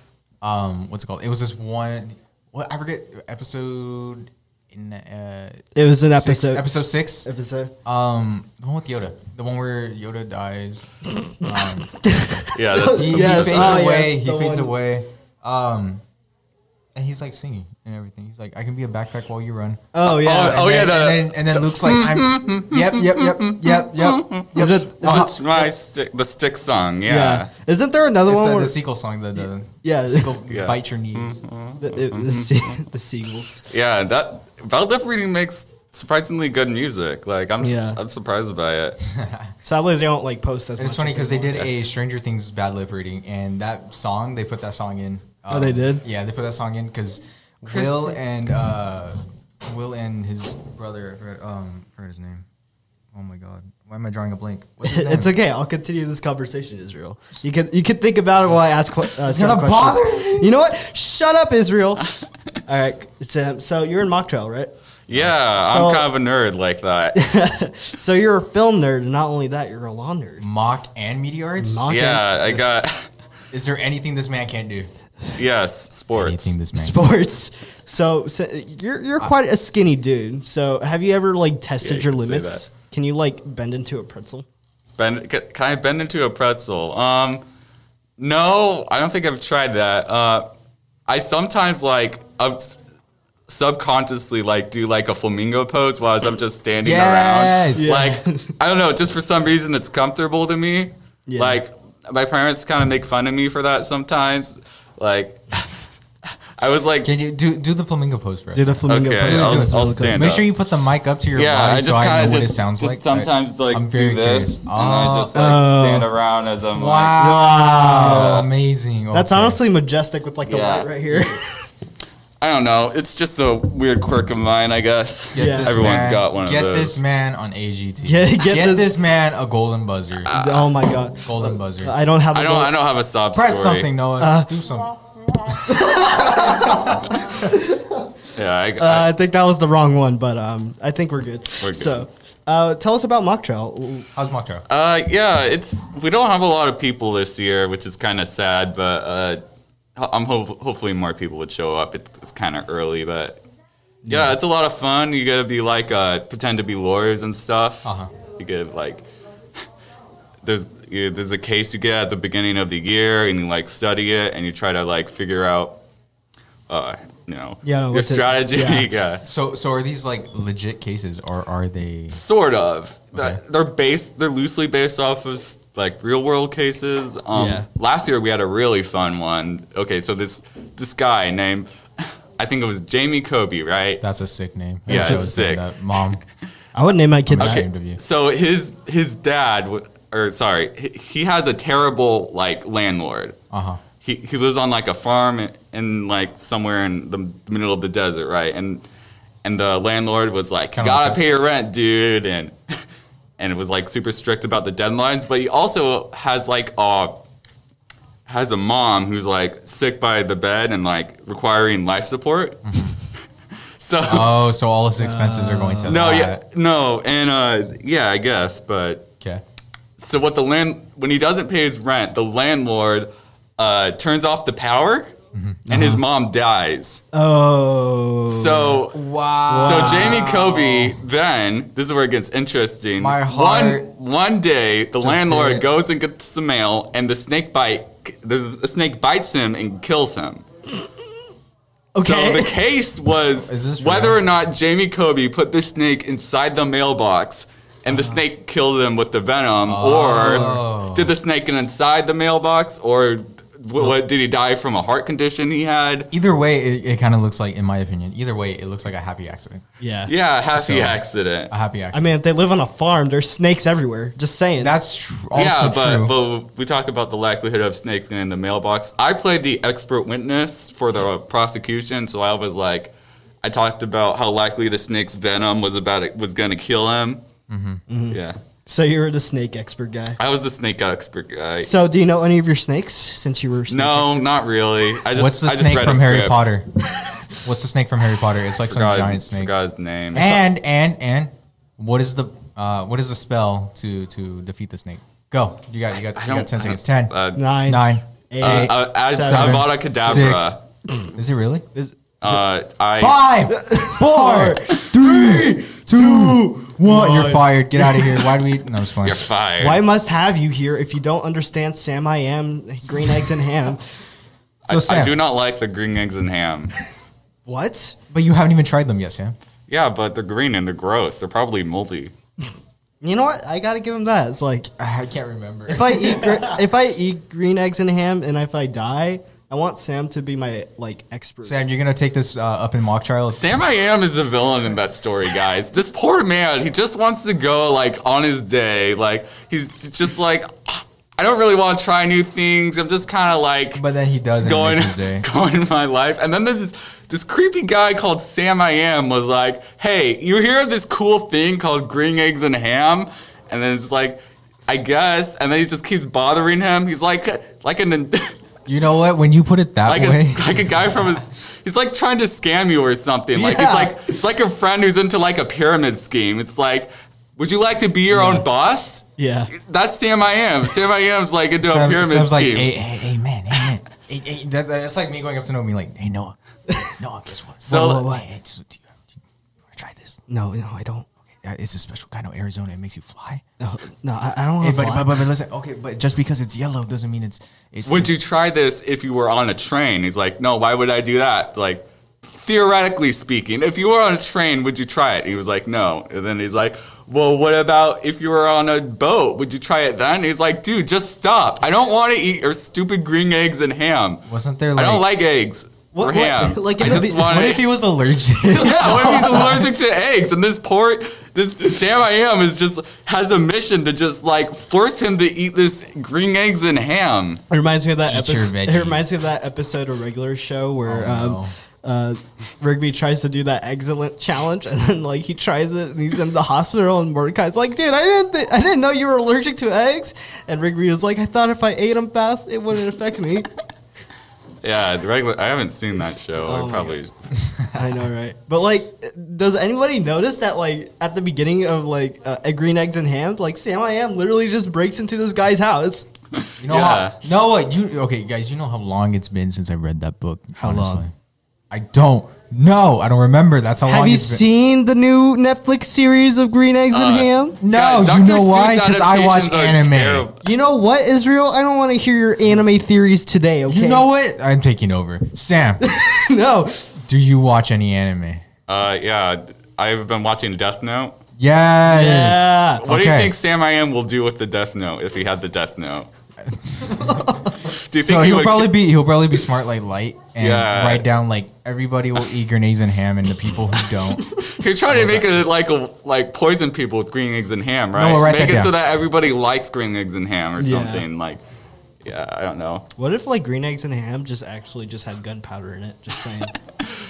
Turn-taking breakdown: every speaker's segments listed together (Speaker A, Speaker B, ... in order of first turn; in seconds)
Speaker A: 0.4-7.3, 7.8-10.9, 11.4-11.9, 12.9-16.0, 16.9-25.4, 28.3-31.4, 39.0-39.5, 40.8-52.5, 53.1-55.3, 59.2-60.5, 70.4-71.9, 73.5-74.9, 76.1-77.0, 96.8-98.0, 107.0-115.3, 116.7-119.6, 125.3-130.3, 131.2-131.9, 133.3-136.8, 144.1-144.6, 157.8-158.1, 169.2-172.2, 173.1-173.4, 184.0-186.2, 187.2-188.0, 193.5-193.8, 200.7-201.2, 212.6-213.0, 214.1-216.4, 225.3-226.0, 228.9-230.9, 233.0-233.9, 235.0-235.6, 243.4-244.2, 249.7-251.1, 256.1-259.6, 260.5-262.1, 264.6-266.1, 277.5-277.8, 285.1-286.7, 287.4-289.5, 290.1-297.1, 297.6-300.6, 301.1-301.6, 303.0-309.3, 312.9-313.4, 314.7-315.1, 318.1-319.4, 324.8-326.6, 331.4-333.6, 343.7-345.2, 358.6-360.8, 371.6-380.2, 381.4-383.4, 384.6-388.1, 404.3-405.0, 406.8-409.7, 418.1-419.2, 420.9-421.5, 437.4-437.7, 446.6-451.1, 451.7-454.4, 457.6-460.2, 463.7-465.8, 467.0-468.4, 471.4-473.3, 476.4-477.4, 478.0-485.4, 487.9-488.7
Speaker B: 5.7-6.7, 7.2-7.7, 11.8-14.7, 19.9-20.7, 24.6-25.7, 27.1-28.8, 29.8-30.3, 31.8-33.6, 37.6-38.0, 39.6-41.7, 45.5-46.0, 54.8-64.7, 65.6-66.1, 67.1-70.5, 71.6-72.6, 76.7-84.5, 97.7-98.5, 101.3-101.6, 108.5-110.3, 115.3-116.1, 117.2-118.4, 119.1-121.5, 125.4-125.8, 128.0-128.9, 130.3-132.7, 134.2-134.5, 135.7-138.1, 138.8-144.1, 167.6-168.9, 177.3-177.7, 184.9-185.3, 186.7-187.7, 215.0-216.0, 227.1-228.8, 229.5-230.3, 241.9-242.5, 247.9-248.2, 250.1-250.6, 259.8-260.1, 261.9-264.7, 277.9-280.2, 281.6-284.2, 297.4-299.7, 303.5-308.3, 309.6-313.8, 317.4-317.9, 323.0-324.7, 325.7-331.6, 363.3-364.2, 368.1-368.4, 369.2-369.5, 377.7-378.2, 380.3-381.1, 383.6-385.2, 405.9-407.5, 408.4-409.6, 417.5-433.5, 436.4-437.0, 437.7-446.1, 450.6-451.0, 453.9-457.6, 460.4-464.1, 465.8-466.9, 471.9-472.8, 476.9-477.5, 490.6-491.0, 493.0-496.6
Speaker C: 12.5-13.9, 20.1-27.5, 30.5-32.8, 33.7-39.0, 47.7-48.2, 65.1-67.2, 71.9-73.1, 75.3-76.5, 81.8-82.6, 85.0-87.4, 88.2-90.5, 91.1-92.8, 93.5-105.7, 106.6-107.1, 108.9-110.5, 111.3-117.2, 117.9-118.5, 120.5-120.9, 122.4-127.0, 130.2-130.7, 132.3-133.9, 138.3-139.1, 141.6-142.0, 144.7-149.4, 149.9-153.4, 154.1-159.1, 160.4-165.8, 166.7-169.2, 172.1-181.7, 182.4-184.0, 184.9-186.1, 187.4-193.3, 194.0-198.8, 199.4-202.5, 203.4-207.2, 208.3-212.7, 213.8-214.5, 215.9-219.1, 220.0-225.1, 225.7-227.0, 228.3-229.0, 229.6-240.4, 242.0-256.1, 260.1-261.5, 265.3-272.9, 273.4-277.2, 278.1-278.4, 280.2-281.7, 283.7-286.5, 288.6-290.4, 296.1-297.4, 298.4-300.6, 302.2-303.2, 309.0-309.8, 314.6-316.7, 319.7-322.1, 333.3-343.8, 344.3-358.3, 359.9-372.7, 377.6-378.1, 387.9-404.2, 404.8-407.6, 408.5-417.4, 434.6-437.1, 446.4-447.2, 456.9-460.4, 468.7-471.1, 472.8-476.1, 477.6-478.8, 480.4-481.1, 484.4-491.4, 492.0-492.9